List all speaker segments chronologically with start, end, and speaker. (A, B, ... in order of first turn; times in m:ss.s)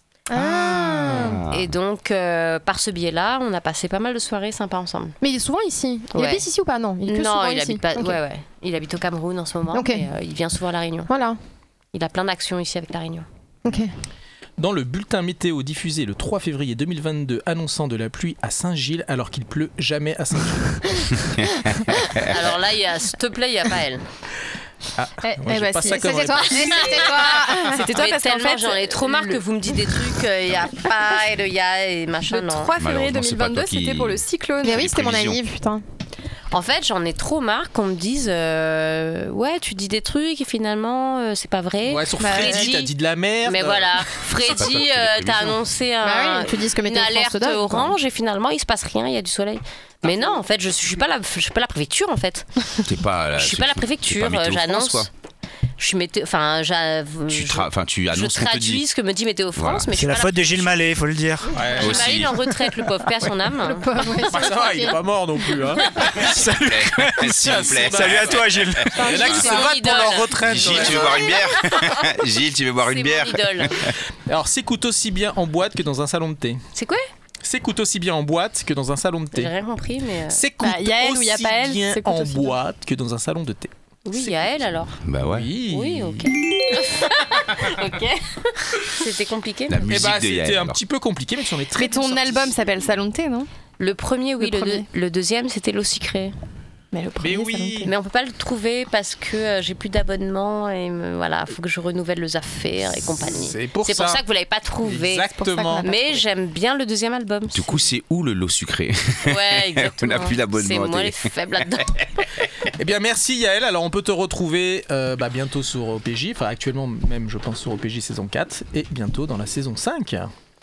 0:00.3-0:01.4 A
0:00.3-0:01.7 B
0:01.5-0:05.2 C
0:05.2-0:08.2 A
0:06.1-0:06.4 C
0:07.0-0:11.1 C
0:09.7-0:10.0 A
0:11.1-0:11.4 A
0:11.9-0:13.2 C
0:13.6-0:13.9 A
0:14.6-0:21.3 D
0:21.4-0:22.2 B
0:22.3-0:24.0 C
0:25.0-0:26.9 D
0:25.3-0:27.9 A
0:26.6-0:32.7 C
0:26.9-0:29.4 E
0:32.3-0:34.8 E
0:32.8-0:35.4 B
0:34.6-0:35.8 A
0:36.5-0:52.5 C
0:41.8-0:44.2 D
0:42.2-0:42.6 A
0:44.4-0:45.6 B
0:46.0-0:47.9 A
0:52.8-0:55.1 B
0:53.4-0:55.1 C
0:55.8-1:00.8 C
0:57.3-0:58.8 B
0:59.6-0:59.9 B
1:00.0-1:01.5 F
1:01.5-1:02.2 D
1:01.6-1:03.9 C
1:01.8-1:02.3 B
1:03.6-1:05.5 A
1:04.2-1:06.2 D
1:06.1-1:09.5 B
1:06.3-1:09.0 F
1:07.2-1:11.2 D
1:09.0-1:11.2 C
1:09.1-1:09.4 A
1:10.4-1:13.9 B
1:12.8-1:13.8 C
1:14.3-1:16.6 D
1:16.7-1:17.1 C
1:17.4-1:19.5 D
1:19.3-1:20.4 C
1:20.3-1:23.7 D
1:20.6-1:22.5 E
1:24.0-1:25.0 C
1:25.0-1:25.5 B
1:25.2-1:26.3 D
1:25.7-1:28.1 C
1:28.8-1:29.9 C
1:29.7-1:30.8 B
1:29.9-1:32.5 D
1:31.8-1:33.5 E
1:33.8-1:36.3 C
1:34.4-1:34.9 E
1:36.9-1:37.9 E
1:37.2-1:37.9 D
1:37.8-1:47.8 C
1:43.2-1:44.2 D
1:44.8-1:46.1 D
1:45.4-1:45.9 E
1:47.5-1:52.0 B
1:49.2-1:52.2 C
1:52.8-2:00.3 D